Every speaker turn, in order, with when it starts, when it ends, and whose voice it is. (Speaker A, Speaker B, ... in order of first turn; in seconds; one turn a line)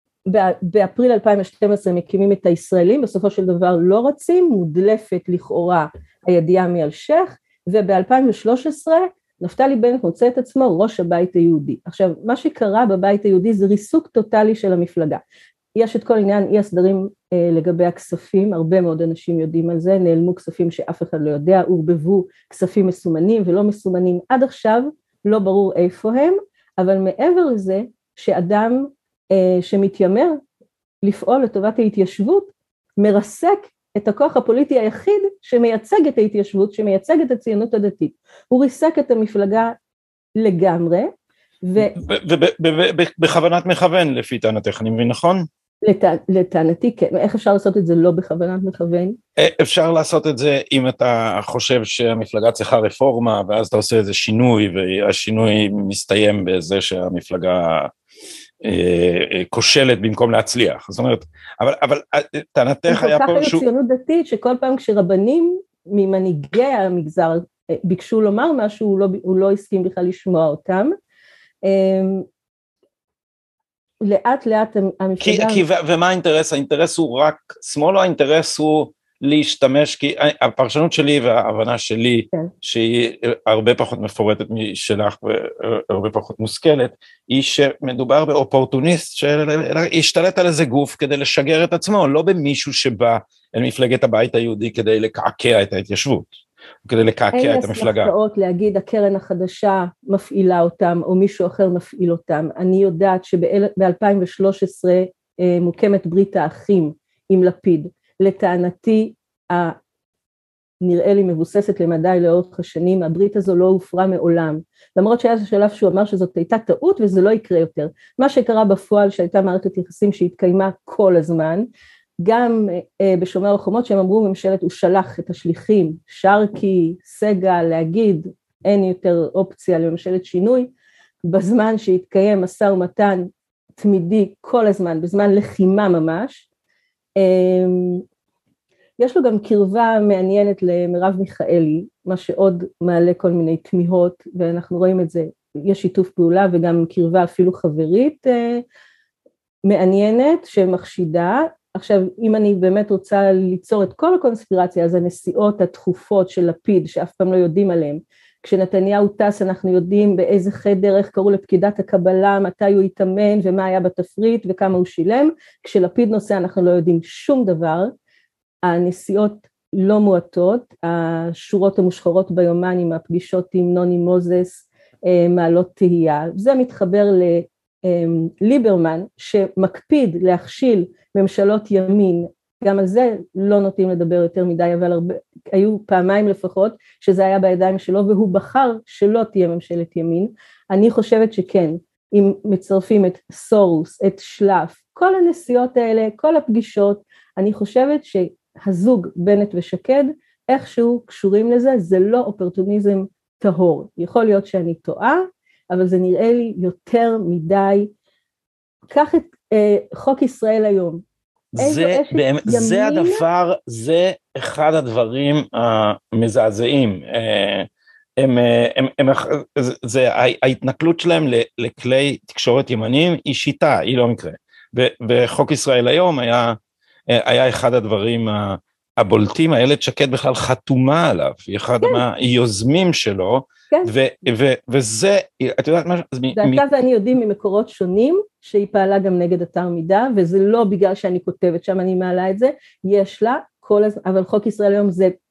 Speaker A: 0.3-15.2
Speaker A: 15.8-30.4
Speaker A: 31.0-39.8
Speaker A: 40.4-41.1
Speaker A: 41.6-42.0
Speaker B: 41.8-45.5
Speaker A: 45.8-49.2
Speaker B: 49.4-57.9
Speaker B: 58.6-63.6
Speaker A: 62.9-70.9
Speaker A: 71.6-72.2
Speaker A: 74.0-75.6
Speaker B: 75.2-96.3
Speaker B: 96.8-98.1
Speaker A: 97.3-109.8
Speaker A: 110.8-121.7
Speaker A: 122.2-130.7
Speaker A: 131.2-136.5
Speaker A: 137.2-138.0
Speaker A: 139.0-148.6
Speaker A: 149.7-167.9
Speaker A: 168.6-207.9
Speaker A: 208.9-211.0
Speaker B: 211.6-226.6
Speaker A: 211.6-213.2
Speaker B: 227.1-236.6
Speaker A: 236.3-245.2